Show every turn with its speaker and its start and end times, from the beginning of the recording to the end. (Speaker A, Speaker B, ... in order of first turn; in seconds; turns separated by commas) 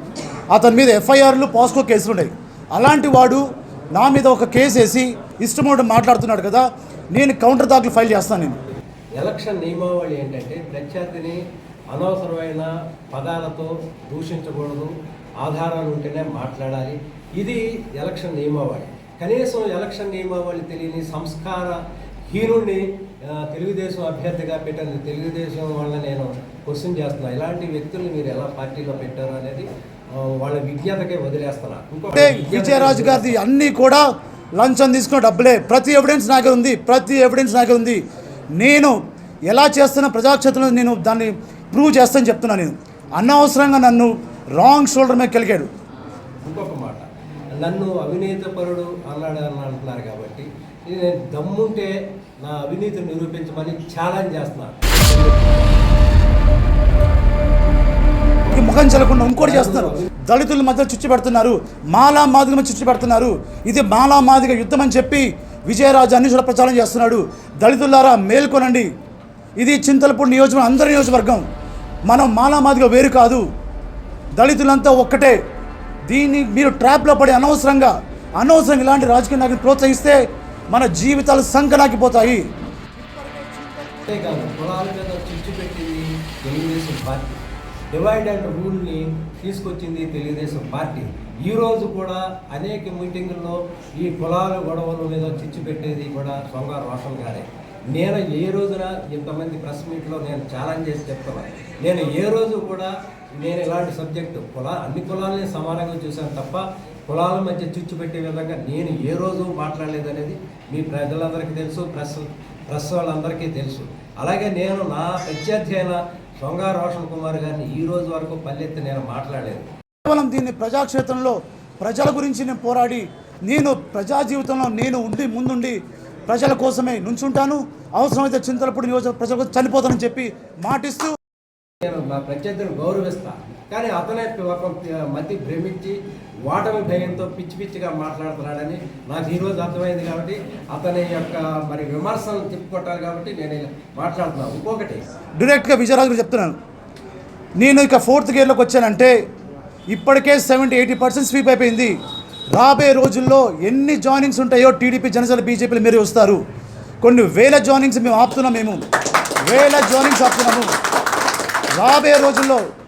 Speaker A: 0.5-8.6, Speaker B: 9.2-33.4, Speaker A: 32.1-34.0, Speaker A: 34.6-38.0, Speaker A: 38.6-39.0, Speaker A: 39.5-45.7, Speaker B: 46.4-55.5, Speaker A: 58.5-68.9, Speaker B: 59.4-60.1, Speaker A: 69.6-71.4, Speaker A: 72.1-73.5, Speaker A: 74.4-75.4, Speaker A: 76.1-82.5, Speaker B: 83.9-119.7, Speaker A: 120.0-131.2, Speaker B: 131.8-145.1, Speaker A: 145.4-146.6, Speaker A: 147.6-149.2, Speaker A: 149.9-151.9, Speaker A: 152.5-156.4, Speaker A: 157.0-158.8, Speaker A: 159.5-160.7, Speaker A: 161.8-162.7